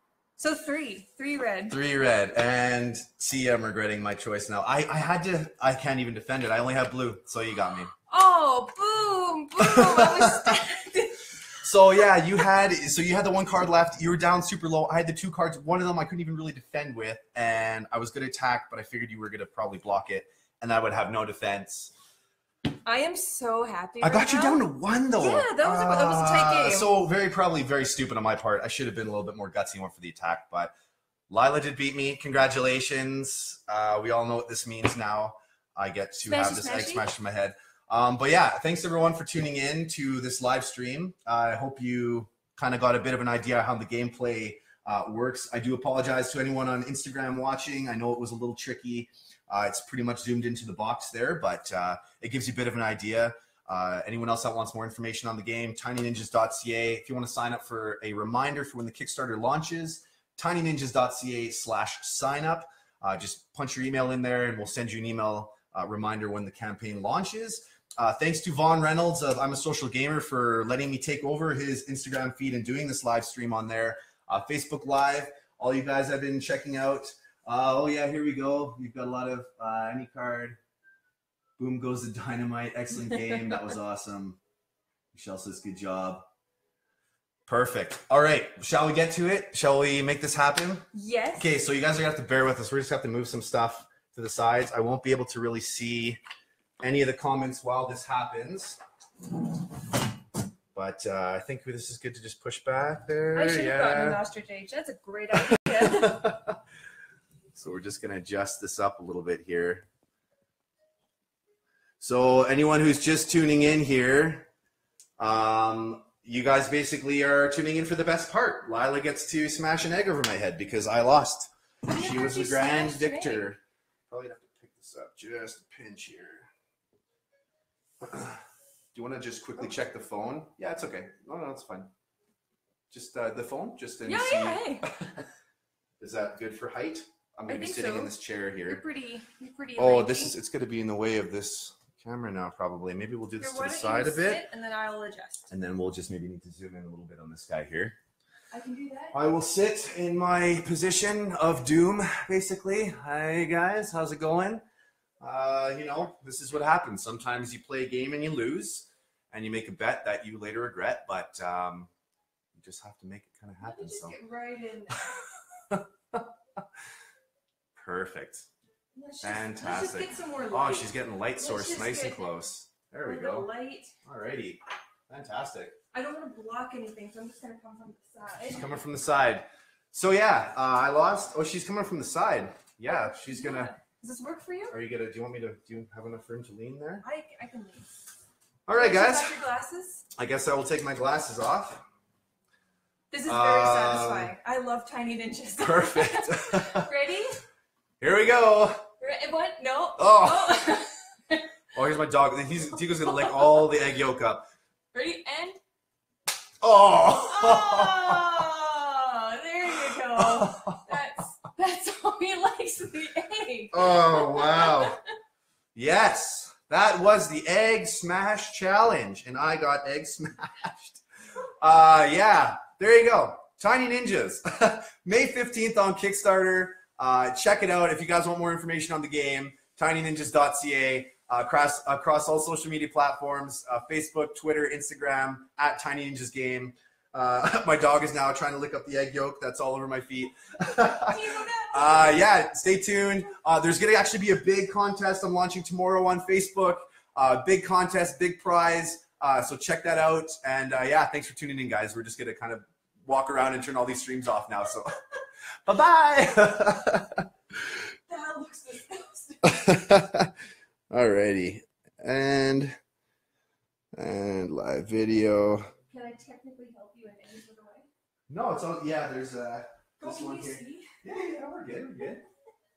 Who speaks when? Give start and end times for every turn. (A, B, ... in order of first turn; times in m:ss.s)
0:00.4-0:01.8 A
0:01.7-0:07.9 B
0:08.1-0:11.2 A
0:09.6-0:10.6 B
0:11.6-0:21.9 B
0:22.8-0:24.6 A
0:24.0-0:30.7 B
0:25.2-0:26.9 A
0:31.3-1:20.6 B
0:36.3-0:37.1 A
1:21.6-1:24.4 B
1:25.1-1:26.2 B
1:27.5-1:30.9 B
1:30.9-1:31.5 A
1:31.4-1:36.2 B
1:36.8-1:38.8 B
1:40.7-1:44.2 B
1:43.4-1:46.2 A
1:45.4-1:46.6 B
1:47.6-1:49.8 B
1:52.0-1:54.5 B
1:55.2-2:06.5 B
2:01.9-2:03.5 A
2:08.0-2:08.4 B
2:08.9-2:11.9 B
2:12.9-2:15.2 B
2:14.0-2:14.9 A
2:16.0-2:18.8 B
2:17.5-2:18.1 A
2:18.7-2:20.4 A
2:19.8-2:24.4 B
2:23.4-2:25.5 A
2:25.5-2:28.0 B
2:28.5-2:29.2 A
2:29.1-2:34.6 B
2:35.2-2:41.9 B
2:42.6-2:44.2 B
2:43.6-2:45.3 A
2:45.7-2:46.3 B
2:47.8-2:48.5 B
2:49.0-2:52.3 A
2:49.2-2:53.5 B
2:53.0-2:53.9 A
2:54.0-2:55.8 B
2:55.9-2:58.6 A
2:58.5-3:03.7 B
3:02.9-3:04.7 A
3:04.7-3:07.0 B
3:07.0-3:07.9 A
3:08.7-3:09.4 B
3:08.7-3:10.0 A
3:10.1-3:11.8 B
3:13.1-3:17.4 A
3:13.2-3:14.3 B
3:15.6-3:16.9 B
3:18.0-3:18.9 B
3:19.0-3:21.5 A
3:20.0-3:20.7 B
3:21.7-3:24.4 B
3:23.0-3:23.7 A
3:24.9-3:25.6 A
3:26.6-3:28.5 B
3:27.0-3:35.0 A
3:29.8-3:30.9 B
3:33.7-3:35.0 B
3:35.8-3:41.0 B
3:41.6-4:15.0 B
4:01.0-4:02.3 A
4:15.7-4:17.3 B
4:18.1-4:19.8 A
4:19.4-4:20.3 B
4:20.9-4:22.8 B
4:23.9-4:25.7 B
4:25.9-4:27.9 A
4:28.3-4:32.2 B
4:30.0-4:30.9 A